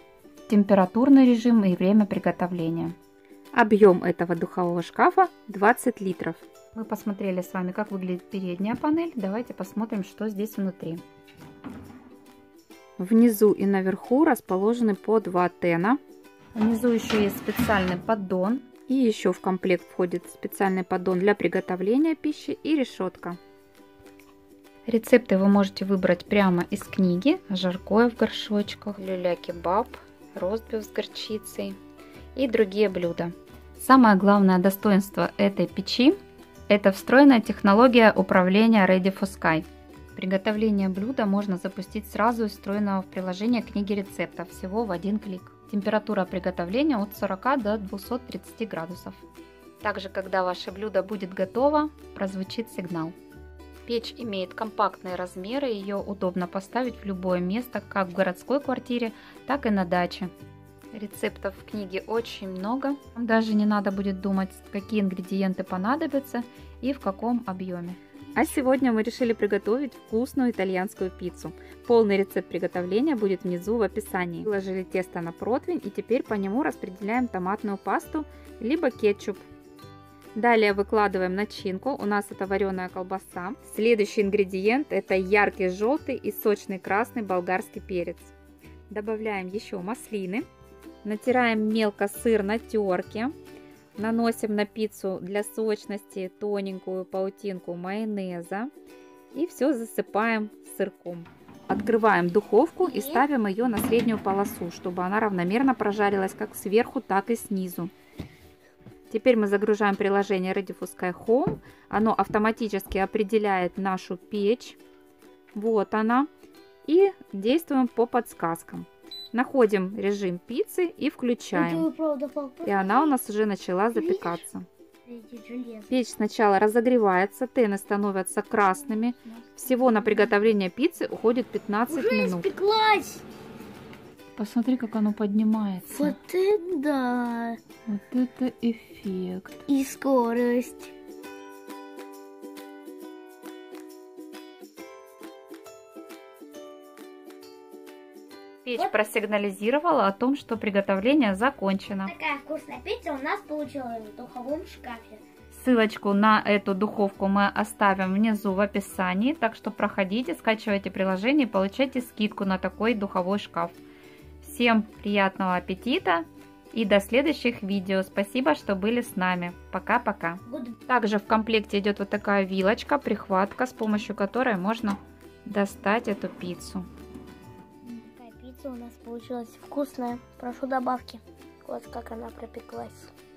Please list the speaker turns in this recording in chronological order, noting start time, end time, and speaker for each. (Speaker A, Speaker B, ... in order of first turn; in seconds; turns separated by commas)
Speaker A: 0.5-2.9, Speaker A: 3.5-11.0, Speaker A: 13.0-16.0, Speaker A: 16.5-23.4, Speaker A: 24.9-31.8, Speaker A: 32.3-36.2, Speaker A: 36.7-49.2, Speaker A: 49.8-53.1, Speaker A: 53.9-60.3, Speaker A: 60.9-79.4, Speaker A: 80.3-88.3, Speaker A: 88.9-90.5, Speaker A: 91.0-93.3, Speaker A: 94.0-98.7, Speaker A: 99.3-107.9, Speaker B: 102.8-103.2, Speaker A: 109.1-114.8, Speaker A: 115.5-116.3, Speaker A: 116.8-121.9, Speaker B: 121.5-123.2, Speaker A: 122.6-124.7, Speaker B: 123.9-124.4, Speaker B: 125.0-125.9, Speaker A: 125.9-132.5, Speaker B: 129.4-130.3, Speaker B: 131.9-133.2, Speaker A: 134.3-136.2, Speaker B: 135.9-137.6, Speaker A: 137.9-139.6, Speaker B: 139.7-140.9, Speaker A: 148.6-152.1, Speaker B: 152.0-155.2, Speaker A: 155.5-163.8, Speaker A: 164.4-176.9, Speaker B: 170.5-170.8, Speaker B: 177.8-183.1